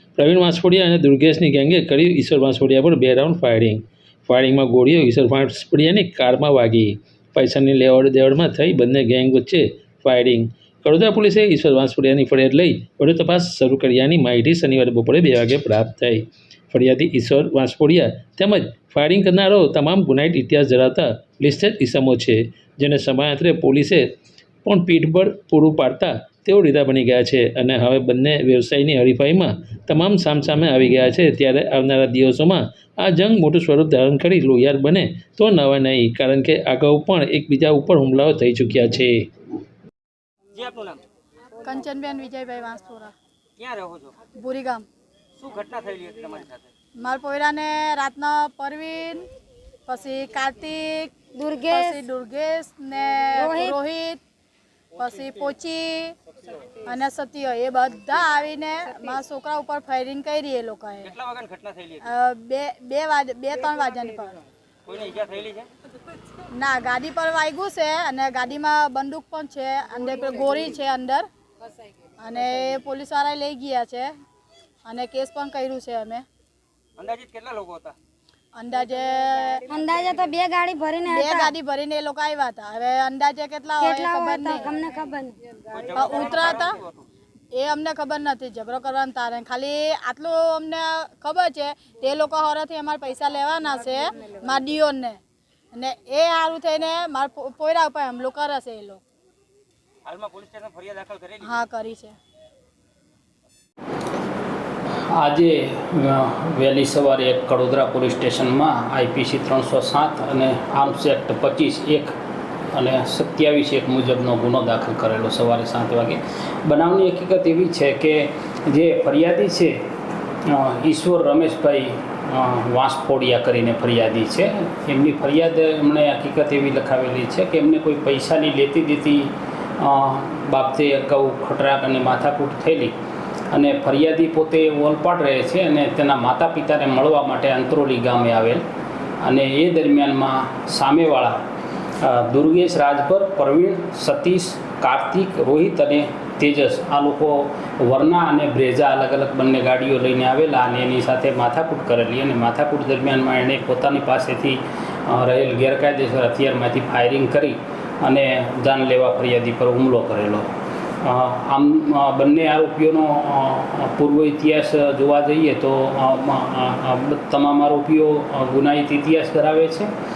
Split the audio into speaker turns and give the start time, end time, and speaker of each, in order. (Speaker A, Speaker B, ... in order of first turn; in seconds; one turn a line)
Speaker A: 0.1-24.1
Speaker A: 24.6-39.3
Speaker B: 40.5-41.0
Speaker C: 41.6-43.1
Speaker B: 43.6-44.1
Speaker C: 44.3-44.8
Speaker B: 45.4-46.7
Speaker C: 47.0-49.3
Speaker C: 49.9-54.2
Speaker D: 51.3-52.0
Speaker D: 53.4-53.8
Speaker C: 54.9-56.1
Speaker C: 56.8-61.2
Speaker B: 61.1-62.0
Speaker C: 62.0-64.4
Speaker B: 64.9-65.7
Speaker C: 66.5-71.3
Speaker C: 72.2-74.1
Speaker C: 74.8-76.2
Speaker B: 77.0-78.0
Speaker C: 78.5-79.6
Speaker D: 79.7-81.5
Speaker C: 81.1-84.7
Speaker D: 83.8-85.4
Speaker B: 85.7-87.0
Speaker C: 85.9-86.8
Speaker C: 87.5-95.2
Speaker C: 95.7-99.0
Speaker B: 100.0-101.5
Speaker C: 101.4-102.2
Speaker E: 105.2-112.1
Speaker E: 112.7-119.8
Speaker E: 120.5-132.9
Speaker E: 133.5-138.6
Speaker E: 139.2-141.4
Speaker E: 142.0-160.5
Speaker E: 161.0-169.9